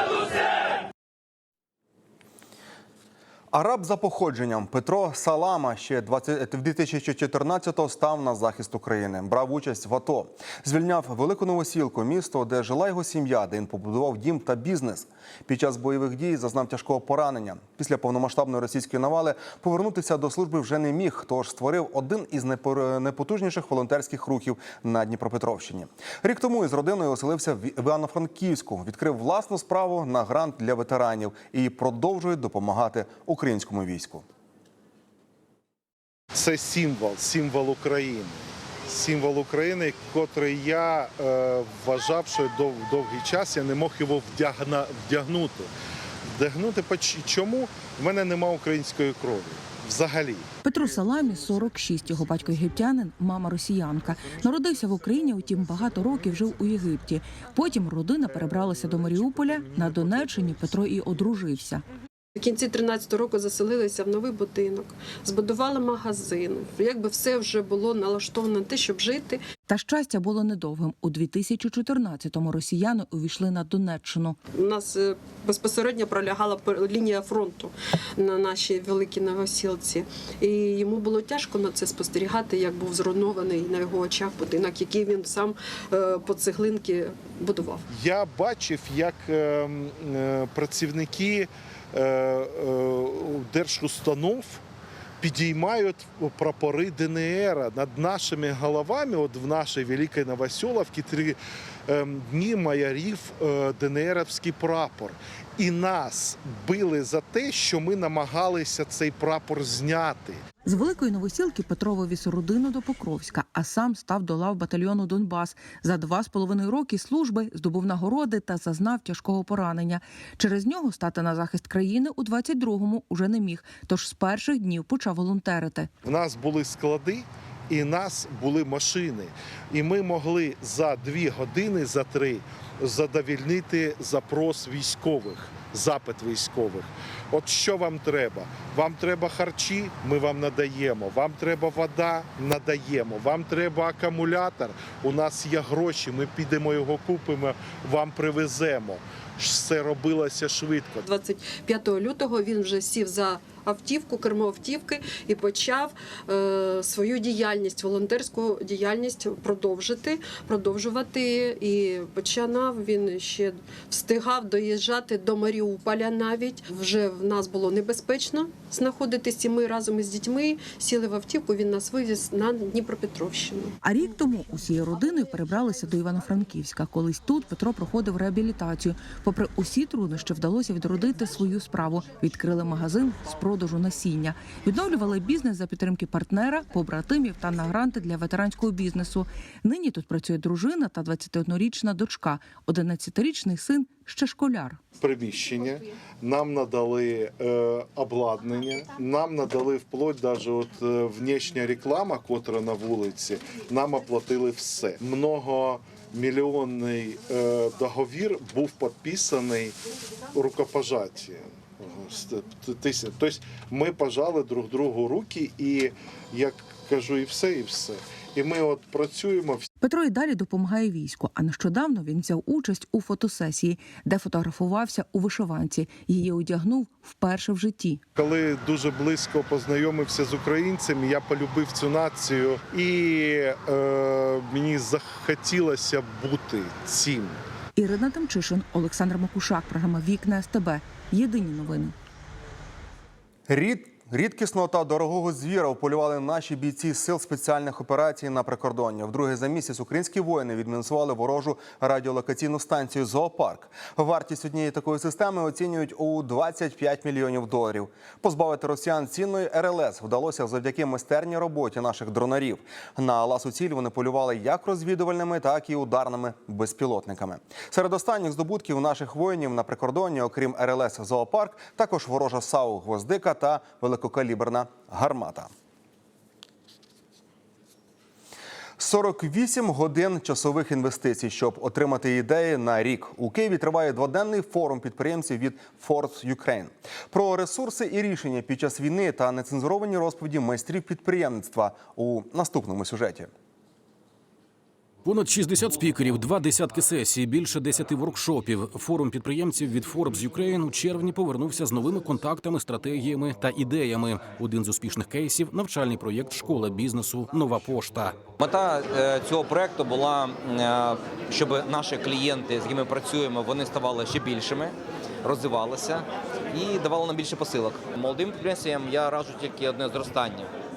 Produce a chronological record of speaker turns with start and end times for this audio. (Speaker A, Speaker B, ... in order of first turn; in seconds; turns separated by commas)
Speaker A: 3.5-34.3, Speaker B: 36.3-45.7, Speaker B: 46.3-50.5, Speaker C: 50.6-61.9, Speaker D: 62.4-69.4, Speaker C: 69.7-74.4, Speaker D: 74.5-87.8, Speaker B: 87.9-94.6, Speaker B: 95.2-110.4, Speaker C: 110.6-125.9, Speaker B: 126.0-151.0, Speaker D: 151.0-173.8, Speaker C: 173.8-194.8, Speaker B: 195.0-209.8, Speaker B: 210.3-219.7, Speaker C: 219.8-228.0, Speaker B: 228.2-237.4, Speaker C: 237.8-241.9, Speaker A: 243.5-275.5, Speaker A: 278.8-293.3, Speaker E: 295.0-308.3, Speaker F: 308.4-320.5